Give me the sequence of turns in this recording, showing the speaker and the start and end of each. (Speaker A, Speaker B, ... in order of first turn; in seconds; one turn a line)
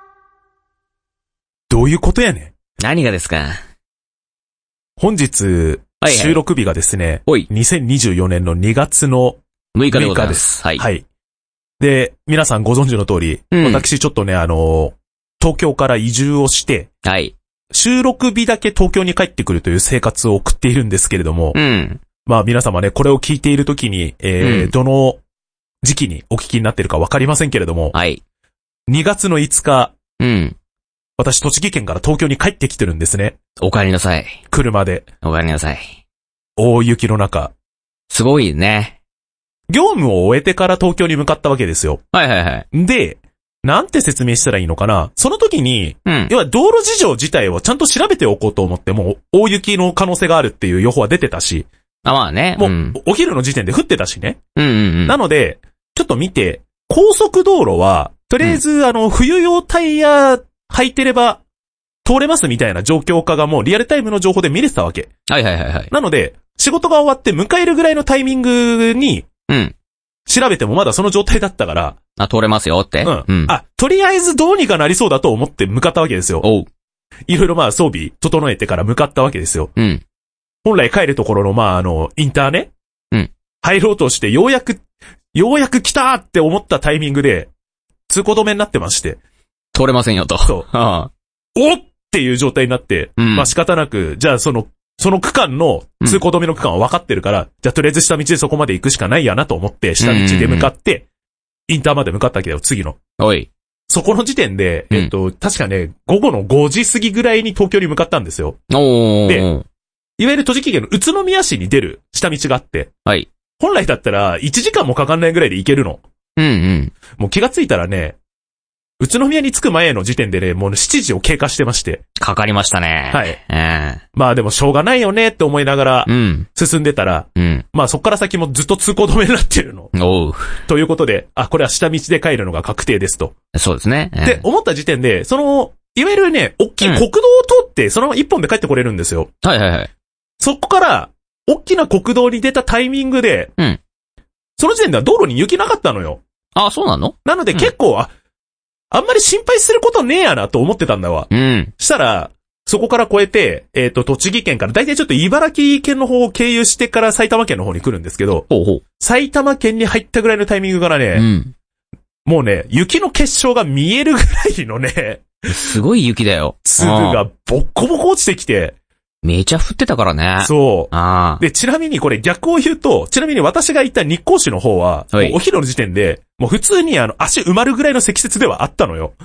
Speaker A: 1.7-2.5
Speaker B: 2.8-3.6
Speaker A: 5.0-9.4
Speaker B: 6.0-6.4
Speaker B: 9.8-10.9
Speaker A: 9.9-11.1
Speaker A: 11.8-16.9
Speaker B: 13.5-13.9
Speaker B: 17.0-17.4
Speaker A: 17.7-21.6
Speaker B: 21.5-22.0
Speaker A: 22.2-25.2
Speaker B: 24.4-24.7
Speaker A: 25.8-27.9
Speaker B: 27.9-28.2
Speaker A: 28.9-29.9
Speaker B: 30.2-30.6
Speaker A: 31.2-33.4
Speaker B: 33.6-34.4
Speaker A: 34.5-35.1
Speaker B: 35.2-35.9
Speaker A: 36.6-37.5
Speaker B: 38.1-39.0
Speaker A: 39.7-42.0
Speaker B: 42.1-42.6
Speaker A: 42.7-51.7
Speaker B: 46.1-46.3
Speaker B: 52.0-53.0
Speaker A: 52.6-54.4
Speaker B: 54.6-55.2
Speaker A: 55.1-61.4
Speaker A: 62.0-65.1
Speaker B: 65.3-65.9
Speaker A: 65.9-69.3
Speaker B: 69.5-69.8
Speaker A: 70.3-72.0
Speaker B: 72.2-73.6
Speaker A: 73.0-76.5
Speaker B: 76.4-76.7
Speaker A: 77.3-79.7
Speaker B: 79.8-80.0
Speaker A: 80.7-82.7
Speaker A: 83.6-84.8
Speaker A: 85.3-87.5
Speaker A: 88.1-89.2
Speaker B: 89.7-91.1
Speaker A: 91.5-101.1
Speaker B: 93.2-93.5
Speaker B: 100.0-100.7
Speaker A: 101.7-103.0
Speaker B: 103.2-103.5
Speaker A: 103.9-108.6
Speaker B: 108.7-109.7
Speaker A: 110.2-112.9
Speaker A: 113.6-116.0
Speaker B: 116.4-116.9
Speaker A: 117.2-118.2
Speaker A: 119.0-122.0
Speaker B: 122.2-124.0
Speaker A: 123.1-123.4
Speaker A: 124.2-129.9
Speaker B: 126.1-126.5
Speaker B: 127.4-127.7
Speaker B: 129.9-130.6
Speaker A: 130.7-133.3
Speaker B: 133.5-134.5
Speaker A: 134.2-139.3
Speaker B: 139.4-139.9
Speaker A: 140.4-143.5
Speaker A: 144.6-146.2
Speaker B: 146.6-147.7
Speaker A: 147.2-148.1
Speaker A: 148.9-158.5
Speaker B: 151.3-151.7
Speaker B: 158.5-158.8
Speaker A: 159.0-161.3
Speaker B: 161.1-161.5
Speaker A: 162.2-165.3
Speaker B: 165.5-167.2
Speaker A: 166.7-168.8
Speaker B: 169.2-171.4
Speaker A: 170.4-179.2
Speaker B: 175.1-175.4